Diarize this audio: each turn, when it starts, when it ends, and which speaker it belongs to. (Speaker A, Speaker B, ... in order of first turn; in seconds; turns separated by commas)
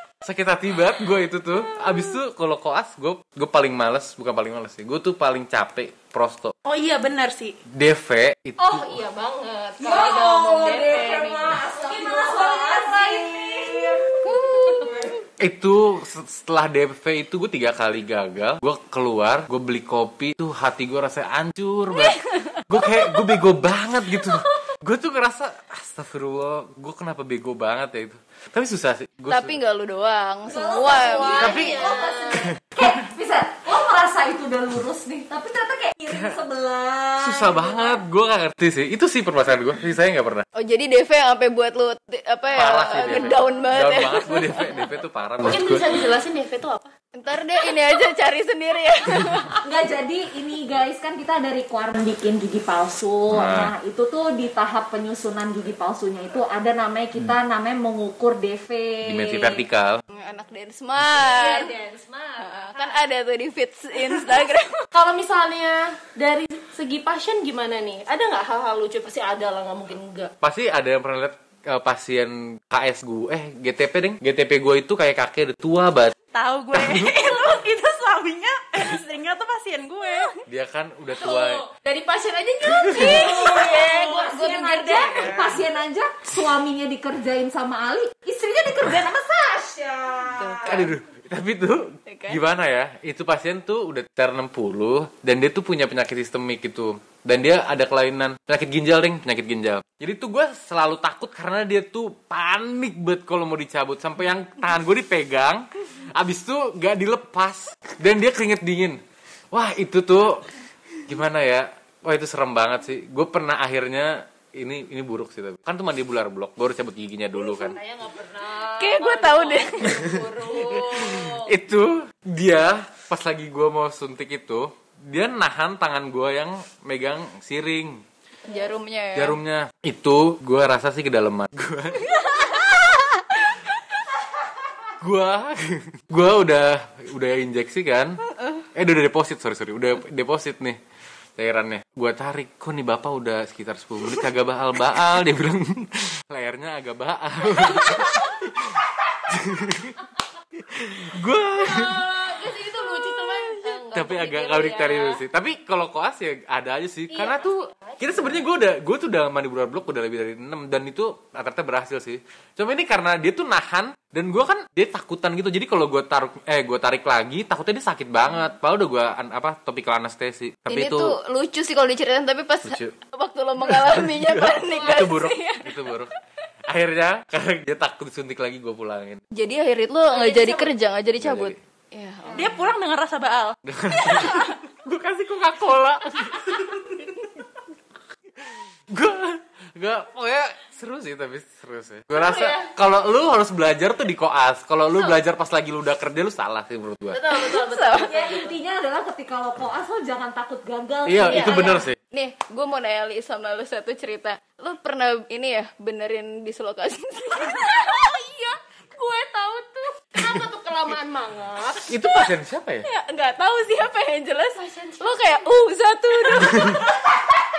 Speaker A: 0.2-6.5, Speaker B: 6.6-7.6, Speaker A: 7.7-9.0, Speaker C: 8.6-14.9, Speaker D: 9.8-15.2, Speaker E: 14.2-15.1, Speaker A: 15.4-29.6, Speaker E: 21.9-23.3, Speaker E: 29.3-31.7, Speaker D: 30.5-37.8, Speaker C: 30.6-32.5, Speaker A: 31.4-32.9, Speaker A: 36.1-36.4, Speaker A: 37.2-40.5, Speaker E: 40.5-44.8, Speaker A: 42.5-45.9, Speaker C: 42.8-43.7, Speaker C: 45.4-46.9, Speaker E: 47.1-49.6, Speaker D: 49.6-59.6, Speaker A: 53.3-53.7, Speaker A: 59.0-60.0, Speaker E: 60.1-61.7, Speaker C: 61.1-63.0, Speaker E: 62.4-64.8, Speaker C: 64.9-70.3, Speaker A: 70.4-76.1, Speaker B: 76.3-80.3, Speaker A: 76.7-77.3, Speaker A: 80.5-81.6, Speaker C: 81.2-85.3, Speaker A: 82.6-83.2, Speaker D: 82.9-90.8, Speaker E: 83.9-85.5, Speaker E: 90.5-90.9, Speaker A: 90.6-109.0, Speaker E: 92.1-92.4, Speaker A: 109.5-110.5, Speaker A: 111.1-117.8, Speaker C: 117.4-121.5, Speaker E: 118.8-120.1, Speaker A: 119.9-128.0, Speaker E: 128.4-129.4, Speaker A: 129.1-132.7, Speaker A: 135.0-138.2, Speaker A: 138.7-140.8, Speaker A: 141.4-152.4, Speaker C: 151.6-155.2, Speaker A: 153.3-171.2, Speaker C: 157.1-158.4, Speaker E: 170.7-175.8, Speaker A: 172.6-172.9, Speaker A: 173.6-176.1, Speaker A: 176.7-179.2, Speaker E: 179.3-182.7, Speaker C: 180.1-180.8, Speaker A: 181.2-181.6, Speaker B: 182.3-183.6, Speaker A: 183.6-187.3, Speaker A: 188.4-197.2, Speaker C: 192.1-192.7, Speaker C: 197.1-198.6, Speaker E: 197.3-198.1, Speaker D: 198.0-201.8, Speaker A: 201.0-202.0, Speaker C: 201.2-201.8, Speaker E: 202.1-207.9, Speaker C: 207.4-212.0, Speaker A: 211.9-212.9, Speaker C: 212.9-216.8, Speaker E: 215.0-215.6, Speaker E: 216.1-216.7, Speaker A: 216.3-216.8